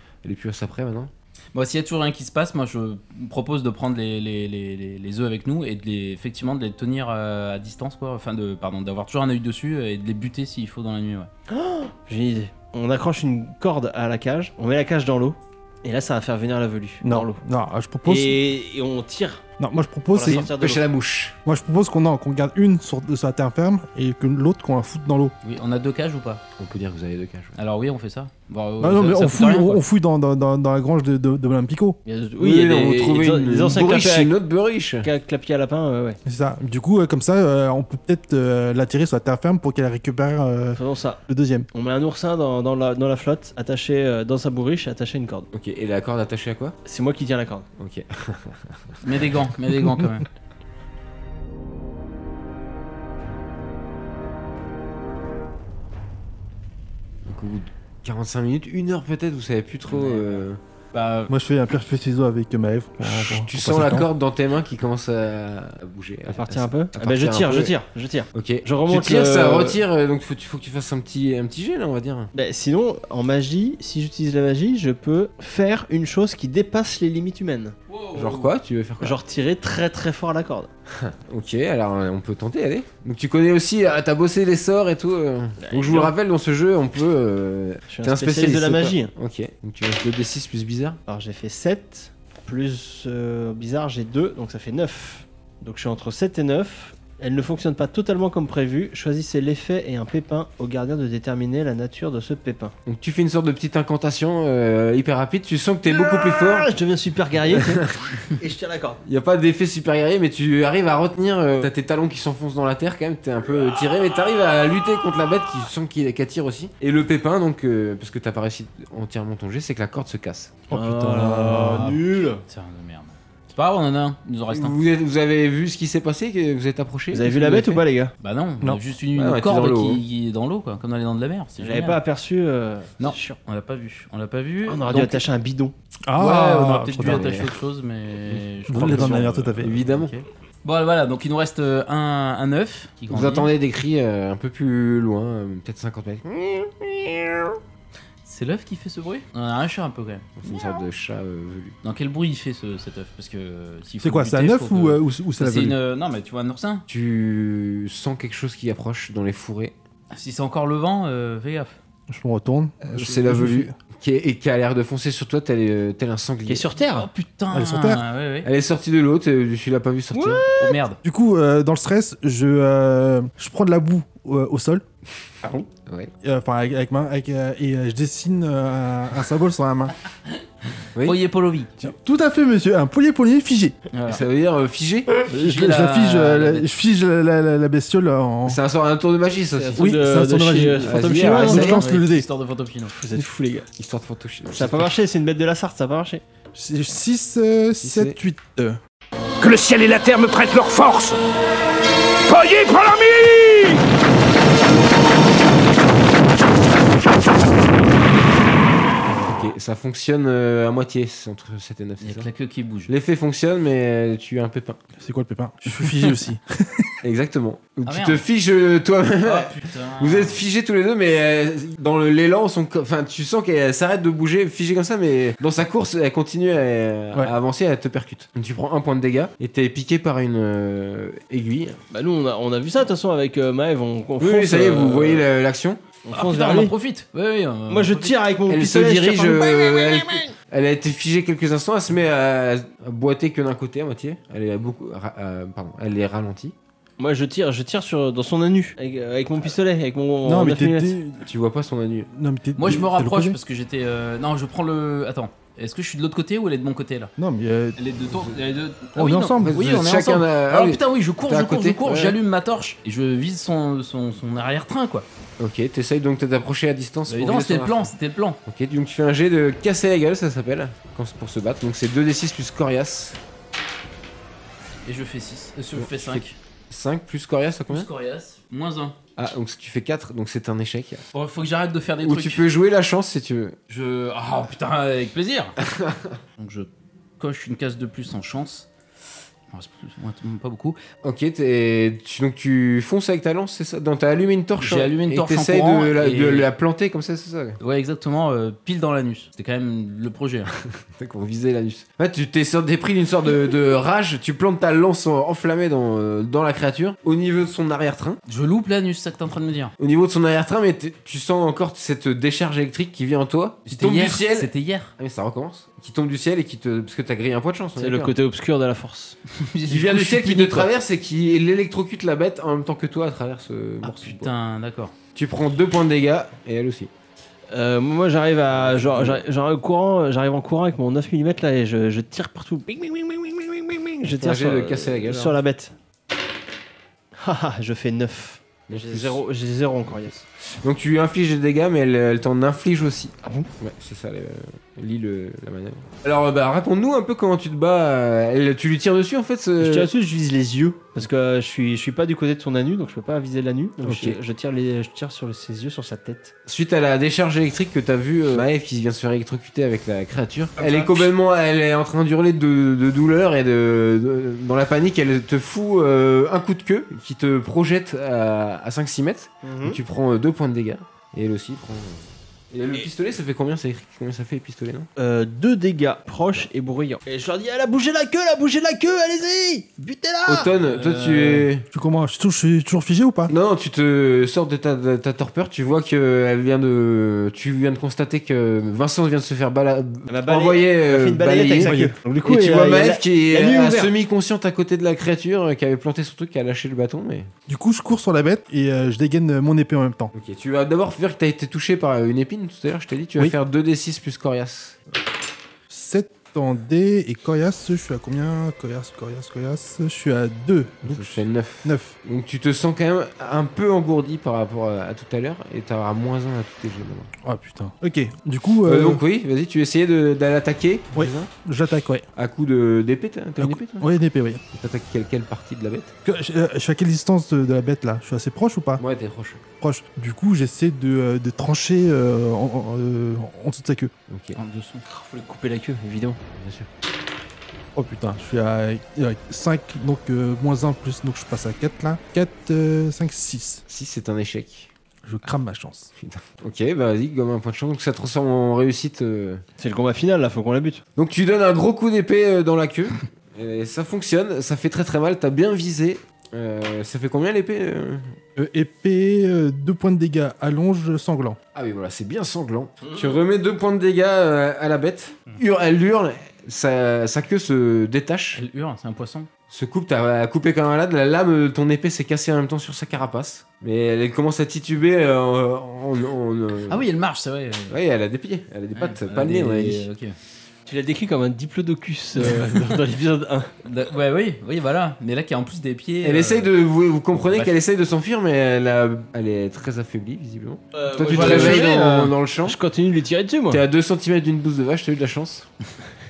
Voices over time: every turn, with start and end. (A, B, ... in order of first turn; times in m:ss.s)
0:00.2-0:01.1 A
0:01.6-0:11.3 B
0:11.5-0:17.4 C
0:17.0-0:18.4 D
0:18.0-0:19.4 C
0:19.6-0:20.5 D
0:20.1-0:20.8 C
0:20.3-0:21.4 A
0:21.4-0:25.3 D
0:25.4-0:26.4 B
0:26.6-0:27.6 A
0:27.6-0:29.8 B
0:28.8-0:32.0 D
0:32.0-0:34.3 C
0:32.4-0:35.1 A
0:35.0-0:36.2 C
0:36.2-0:41.7 D
0:40.7-0:41.2 C
0:41.7-0:45.5 C
0:45.5-0:46.8 A
0:46.8-0:47.7 C
0:47.8-0:48.8 A
0:49.0-0:50.3 B
0:57.3-1:00.6 A
0:59.9-1:01.3 B
1:01.3-1:04.1 D
1:03.0-1:07.7 A
1:06.3-1:09.8 C
1:08.3-1:12.3 A
1:12.3-1:17.8 C
1:17.9-1:18.5 B
1:18.2-1:19.2 A
1:19.0-1:20.7 C
1:21.0-1:31.0 A
1:25.6-1:26.1 C
1:27.9-1:29.1 C
1:31.1-1:42.7 C
1:42.9-1:46.7 A
1:45.9-1:49.0 C
1:47.5-1:48.0 A
1:49.0-2:00.6 A
2:00.7-2:02.0 D
2:00.7-2:02.4 C
2:01.7-2:04.8 B
2:04.5-2:07.8 A
2:07.1-2:08.1 C
2:08.2-2:12.0 B
2:09.2-2:10.0 A
2:11.6-2:13.4 C
2:13.0-2:15.2 B
2:14.7-2:15.7 C
2:16.0-2:17.4 D
2:16.2-2:23.5 B
2:17.0-2:17.6 A
2:18.3-2:20.1 A
2:18.7-2:19.8 D
2:23.1-2:27.6 A
2:28.2-2:30.3 B
2:30.4-2:31.8 A
2:31.8-2:36.8 B
2:34.0-2:35.8 D
2:36.9-2:39.7 A
2:40.1-2:41.8 B
2:42.1-2:43.7 D
2:42.9-2:46.7 A
2:46.5-2:47.1 C
2:46.9-2:48.5 B
2:47.5-2:48.0 D
2:48.4-2:50.5 A
2:50.1-2:50.8 C
2:50.6-2:51.0 B
2:51.0-2:54.8 D
2:55.4-2:56.1 A
2:56.2-2:59.9 D
3:01.0-3:01.7 B
3:01.8-3:03.8 D
3:03.9-3:04.2 B
3:04.1-3:05.1 A
3:05.3-3:06.7 B
3:05.3-3:08.6 D
3:08.4-3:10.0 A
3:09.3-3:11.8 C
3:09.8-3:12.3 D
3:10.5-3:11.8 A
3:11.4-3:12.9 B
3:12.9-3:13.7 C
3:13.8-3:14.9 A
3:14.5-3:16.2 C
3:16.6-3:18.8 D
3:17.8-3:18.2 A
3:19.4-3:21.2 E
3:22.3-3:23.7 E
3:29.1-3:32.3 A
3:32.0-3:32.9 B
3:32.9-3:34.8 A
3:35.0-3:36.9 D
3:35.8-3:36.1 B
3:37.0-3:51.8 A
3:37.8-3:38.2 B
3:39.2-3:40.4 B
3:51.9-3:55.2 C
3:54.2-3:55.8 A
3:56.0-3:56.7 C
3:56.1-3:58.2 B
3:57.7-4:00.3 C
3:58.5-4:06.6 A
4:07.0-4:11.0 C
4:10.2-4:11.3 D
4:11.2-4:12.1 A
4:12.1-4:13.4 D
4:12.6-4:17.1 B
4:17.2-4:17.8 D
4:17.8-4:25.0 B
4:19.0-4:19.7 D
4:19.4-4:22.2 A
4:25.4-4:27.9 A
4:27.1-4:28.4 B
4:28.4-4:33.2 A
4:34.8-4:36.4 B
4:35.7-4:37.9 A
4:37.7-4:39.0 B
4:39.2-4:41.0 A
4:41.1-4:42.4 B
4:42.0-4:43.6 A
4:43.7-4:45.6 B
4:45.7-4:46.0 A
4:46.4-4:48.7 B
4:49.5-4:50.8 B
4:51.0-4:57.6 A
4:54.6-4:56.5 B
4:57.6-5:00.5 B
5:00.7-5:08.2 A
5:08.3-5:09.7 B
5:09.8-5:18.1 A
5:13.7-5:14.9 B
5:17.8-5:19.2 C
5:19.3-5:20.4 B
5:19.7-5:24.3 A
5:20.3-5:20.7 C
5:23.8-5:24.9 B
5:25.1-5:26.9 A
5:27.5-5:35.7 C
5:28.5-5:29.2 A
5:34.1-5:35.4 A
5:37.2-5:40.2 C
5:38.7-5:39.2 A
5:40.6-5:49.9 A
5:43.2-5:43.5 C
5:49.6-5:56.3 C
5:53.8-5:54.2 A
5:56.4-6:14.9 A
6:09.4-6:09.8 C
6:15.0-6:20.6 C
6:20.3-6:21.7 A
6:20.6-6:21.5 B
6:21.7-6:23.3 D
6:23.3-6:37.3 A
6:30.1-6:33.9 C
6:31.6-6:32.0 D
6:37.5-6:40.1 D
6:40.1-6:44.8 A
6:45.7-6:52.0 D
6:50.8-6:57.1 A
6:57.2-6:59.0 D
6:58.6-7:01.3 A
7:01.0-7:02.0 D
7:02.2-7:03.9 A
7:03.4-7:04.4 D
7:04.5-7:05.9 A
7:06.0-7:08.8 D
7:08.8-7:09.4 A
7:09.6-7:13.9 D
7:14.1-7:14.4 A
7:14.4-7:14.8 B
7:14.9-7:16.2 C
7:16.3-7:16.7 A
7:17.7-7:23.6 D
7:23.7-7:24.7 A
7:25.0-7:25.9 D
7:26.0-7:29.4 A
7:29.6-7:30.8 C
7:31.0-7:38.2 A
7:38.4-7:41.4 D
7:41.5-7:48.4 A
7:42.8-7:43.2 C
7:48.3-7:49.3 B
7:49.5-7:56.9 A
7:56.7-7:57.8 B
7:57.7-7:59.9 A
7:58.8-8:00.2 B
8:00.7-8:03.5 C
8:03.6-8:06.5 B
8:06.0-8:12.6 A
8:07.3-8:07.5 B
8:10.7-8:11.7 C
8:11.1-8:12.1 B
8:12.4-8:13.6 C
8:13.5-8:15.5 A